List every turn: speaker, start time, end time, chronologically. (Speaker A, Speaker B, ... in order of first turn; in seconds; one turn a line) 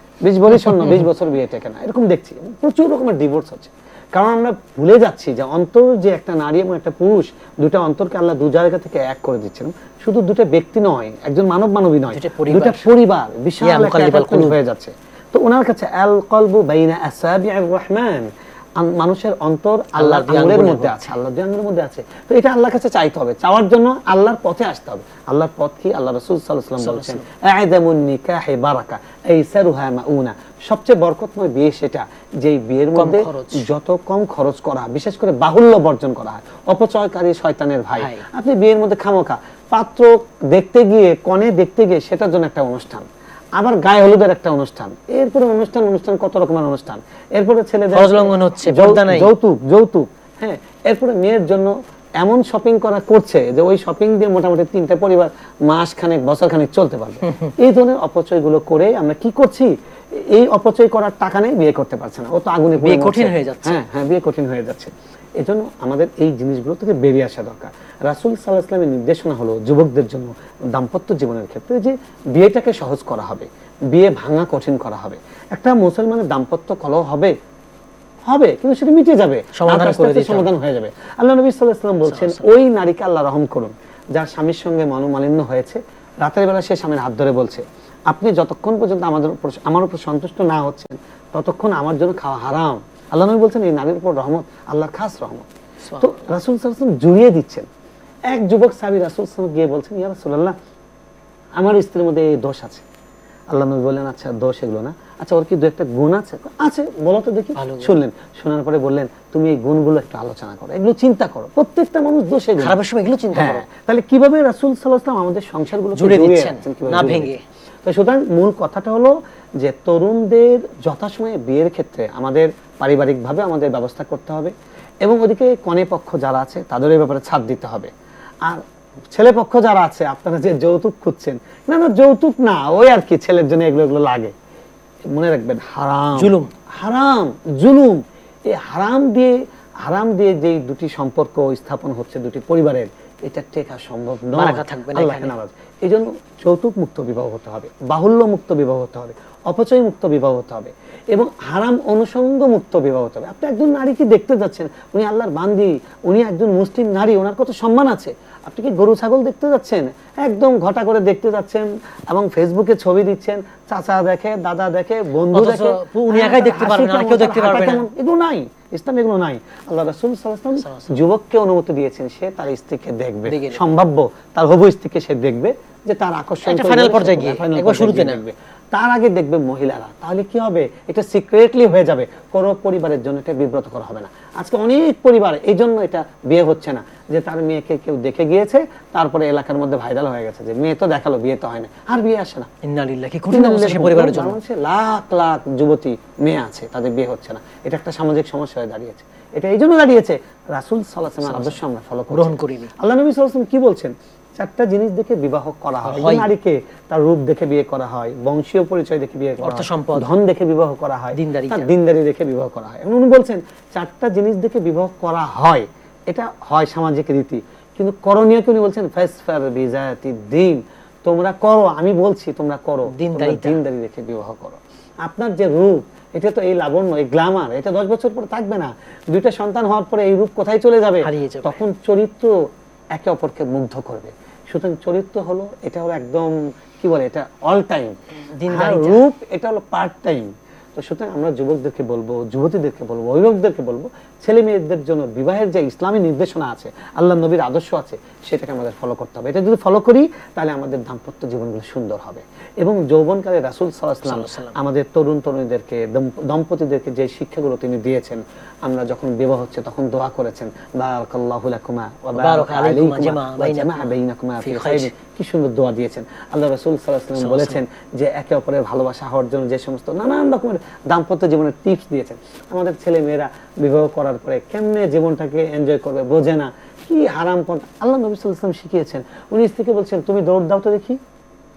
Speaker A: 0.2-18.3
Speaker B: 12.1-12.8
Speaker B: 13.6-14.6
Speaker A: 18.8-43.0
Speaker B: 19.9-21.1
Speaker B: 26.8-27.2
Speaker B: 32.9-33.6
Speaker B: 38.0-38.2
Speaker A: 43.6-59.7
Speaker B: 47.9-49.3
Speaker A: 60.3-77.3
Speaker B: 62.8-63.8
Speaker A: 78.3-95.5
Speaker B: 79.5-80.5
Speaker B: 82.0-82.5
Speaker B: 95.8-96.2
Speaker A: 96.0-97.7
Speaker A: 98.3-100.5
Speaker A: 101.6-102.8
Speaker A: 103.5-112.8
Speaker B: 107.5-108.0
Speaker B: 112.6-113.6
Speaker A: 113.3-124.5
Speaker B: 116.0-117.4
Speaker A: 125.0-127.9
Speaker A: 128.5-134.3
Speaker A: 135.1-192.5
Speaker B: 136.1-136.5
Speaker B: 144.3-145.3
Speaker B: 165.3-167.8
Speaker B: 170.6-171.0
Speaker B: 173.3-173.7
Speaker B: 176.4-178.2
Speaker B: 192.6-194.4
Speaker A: 193.3-232.3
Speaker B: 201.1-201.6
Speaker B: 202.1-202.7
Speaker B: 205.8-206.3
Speaker B: 209.4-210.1
Speaker B: 211.1-211.7
Speaker B: 222.9-223.6
Speaker B: 231.0-231.6
Speaker A: 232.9-237.9
Speaker B: 238.3-239.0
Speaker A: 238.5-281.0
Speaker B: 254.0-254.6
Speaker B: 262.1-264.9
Speaker B: 267.1-267.6